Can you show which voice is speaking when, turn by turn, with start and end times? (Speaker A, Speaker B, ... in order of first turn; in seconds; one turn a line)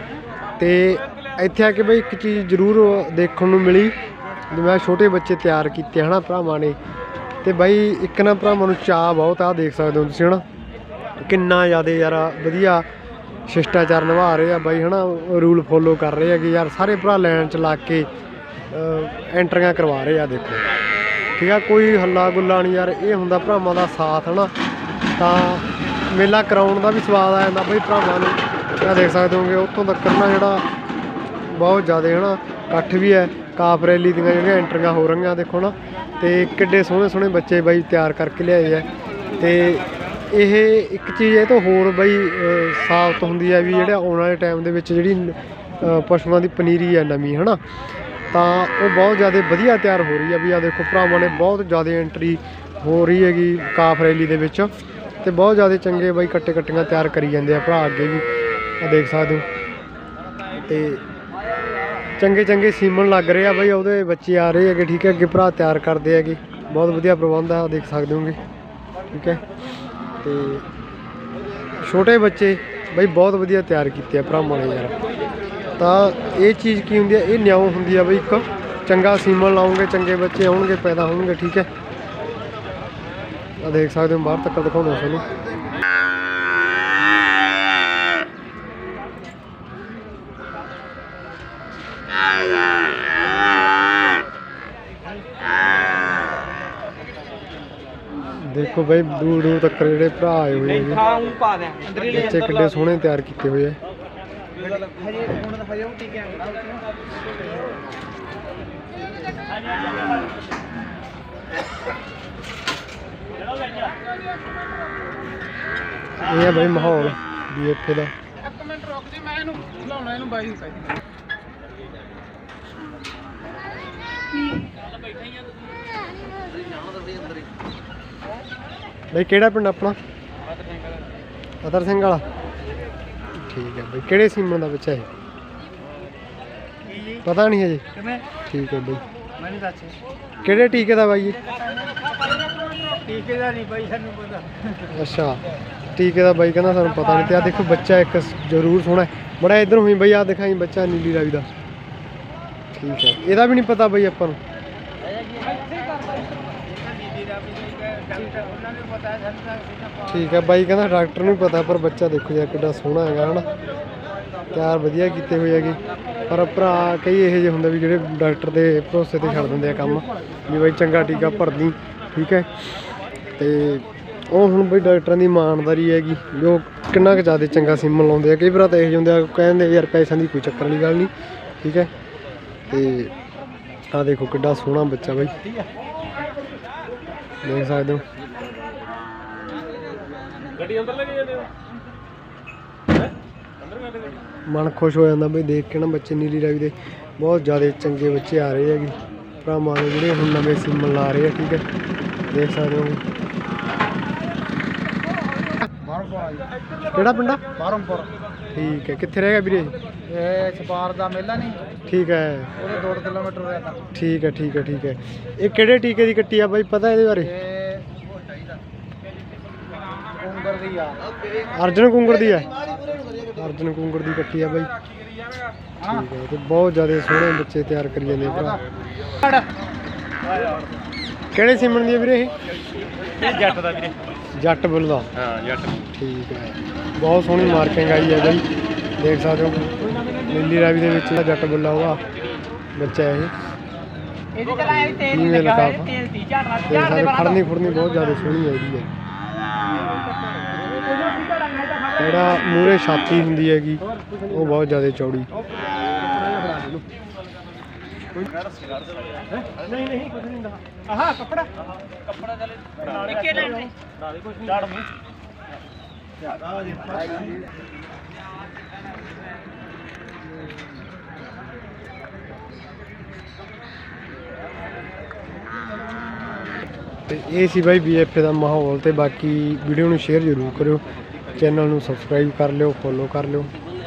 Speaker A: 0.6-4.0
Speaker A: 4.5-6.8
Speaker A: 7.4-10.4
Speaker A: 11.2-12.8
Speaker A: 13.5-18.1
Speaker A: 18.7-20.6
Speaker A: 21.4-24.5
Speaker A: 25.2-30.6
Speaker A: 31.5-38.9
Speaker A: 39.4-47.6
Speaker A: 48.3-58.2
Speaker A: 58.8-59.5
Speaker A: 60.6-61.0
Speaker A: 62.2-68.4
Speaker A: 69.1-69.4
Speaker A: 70.2-70.7
Speaker A: 71.8-74.9
Speaker A: 75.8-81.7
Speaker A: 83.6-85.2
Speaker A: 98.3-101.2
Speaker A: 101.9-103.8
Speaker B: 104.8-106.4
Speaker A: 116.1-118.1
Speaker B: 118.6-120.8
Speaker A: 129.1-130.0
Speaker A: 131.6-132.2
Speaker A: 133.3-135.1
Speaker A: 137.1-137.8
Speaker A: 138.5-139.0
Speaker B: 139.4-139.9
Speaker A: 140.4-141.4
Speaker B: 142.7-144.5
Speaker A: 144.8-145.4
Speaker A: 145.9-151.5
Speaker A: 152.7-154.4
Speaker B: 157.1-159.8
Speaker A: 160.0-163.5
Speaker A: 164.5-172.5
Speaker A: 173.4-181.9
Speaker A: 182.7-183.1
Speaker A: 183.9-185.3
Speaker A: 187.4-188.0
Speaker A: 194.5-201.6
Speaker A: 202.3-203.0
Speaker B: 205.8-206.5
Speaker A: 206.9-207.5
Speaker B: 207.5-208.1
Speaker A: 208.5-209.7
Speaker B: 210.1-211.6
Speaker A: 211.9-212.6
Speaker B: 212.6-213.8
Speaker A: 213.9-217.4
Speaker B: 217.4-217.8
Speaker B: 220.2-221.0
Speaker A: 221.5-222.5
Speaker A: 223.3-224.7
Speaker A: 225.8-228.6
Speaker A: 231.3-232.3
Speaker A: 234.3-238.5
Speaker A: 239.0-242.0
Speaker A: 242.7-243.3
Speaker A: 244.4-246.1
Speaker B: 246.0-246.6
Speaker A: 246.6-248.9
Speaker A: 251.9-255.3
Speaker B: 263.1-263.5
Speaker A: 277.1-280.8
Speaker A: 281.4-283.5